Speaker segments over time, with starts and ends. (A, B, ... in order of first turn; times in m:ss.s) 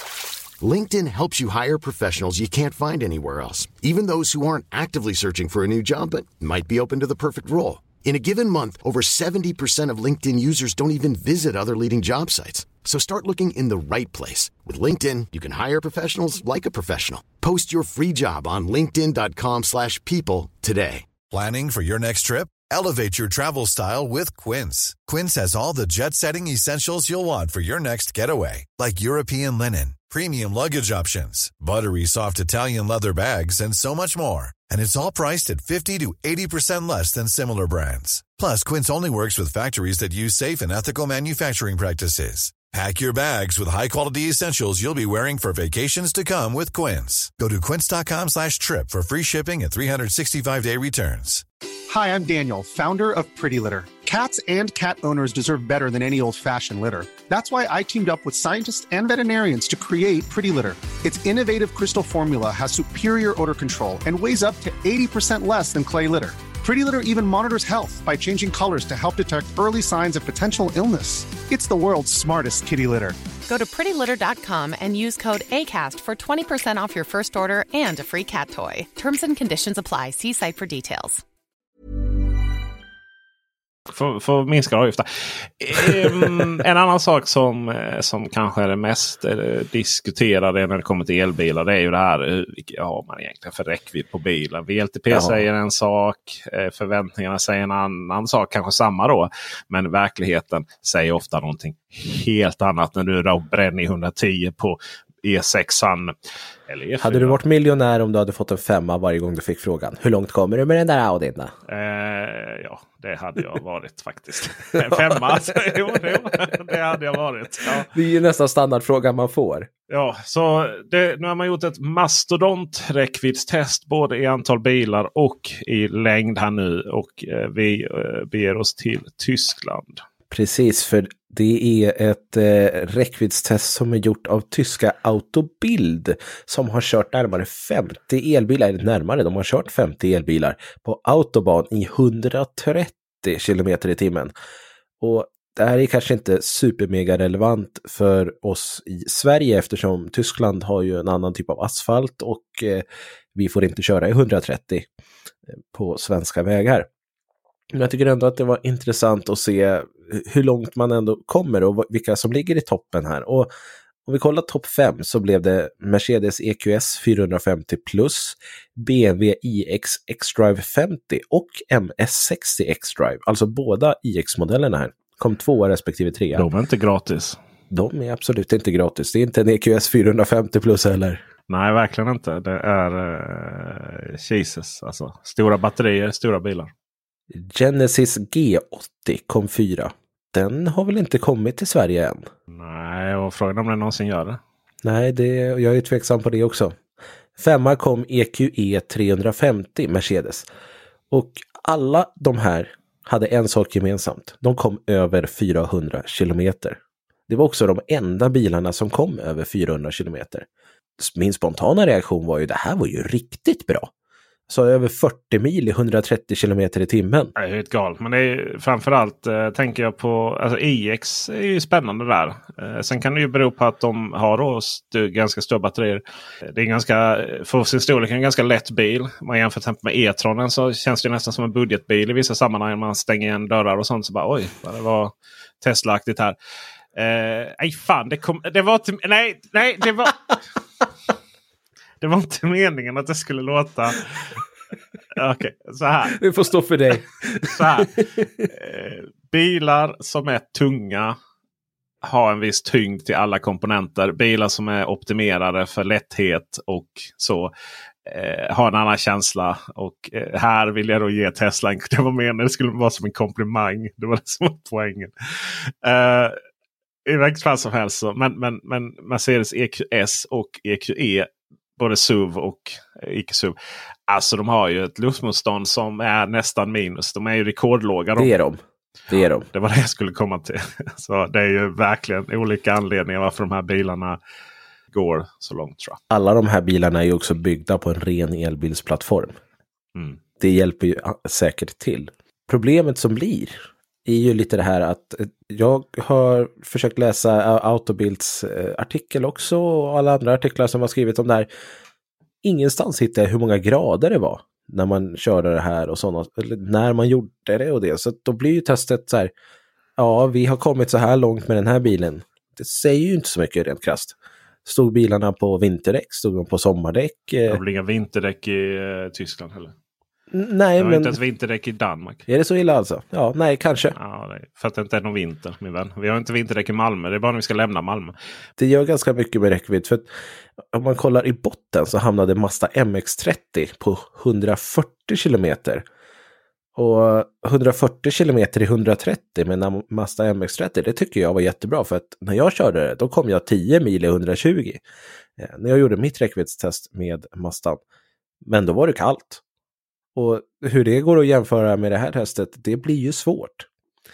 0:00.6-0:21.1 A
0:21.3-0:51.4 B
0:51.9-1:13.2 C
1:13.5-1:21.2 D
1:23.9-1:46.2 E
1:35.1-1:35.4 F
1:46.7-1:47.4 E
1:47.0-1:51.5 F
1:51.7-1:57.9 E
1:54.8-1:55.2 F
1:57.9-1:59.7 F
1:59.9-2:10.0 E
2:10.3-2:24.3 F
2:25.0-2:34.9 F
2:35.5-2:36.9 F
2:37.7-2:43.5 F
2:44.1-2:56.5 F
2:56.3-2:57.4 E
2:57.7-3:01.2 F
3:01.5-3:06.7 E
3:07.3-3:12.3 F
3:12.5-3:14.4 E
3:14.8-3:16.8 F
3:17.4-3:20.5 F
3:21.1-3:30.5 F
3:31.0-3:33.9 F
3:34.5-3:37.3 F
3:37.4-3:56.4 E
3:57.0-4:00.2 E
4:02.0-4:04.4 E
4:05.2-4:06.2 E
4:06.1-4:08.3 F
4:07.4-4:11.2 E
4:12.0-4:17.5 E
4:18.1-4:26.4 E
4:27.1-4:33.6 E
4:34.1-4:38.3 E
4:38.2-4:39.5 F
4:39.5-4:44.2 E
4:44.9-4:46.0 E
4:46.1-4:49.4 F
4:50.4-5:01.5 F
5:02.4-5:09.3 F
5:10.0-5:17.6 F
5:17.5-5:19.7 E
5:20.3-5:21.2 F
5:20.8-5:22.2 E
5:22.3-5:24.0 F
5:24.0-5:28.1 E
5:28.6-5:30.1 F
5:30.7-5:35.8 F
5:36.8-5:44.8 F
5:45.4-5:47.8 F
5:48.4-5:49.4 F
5:50.2-5:53.7 F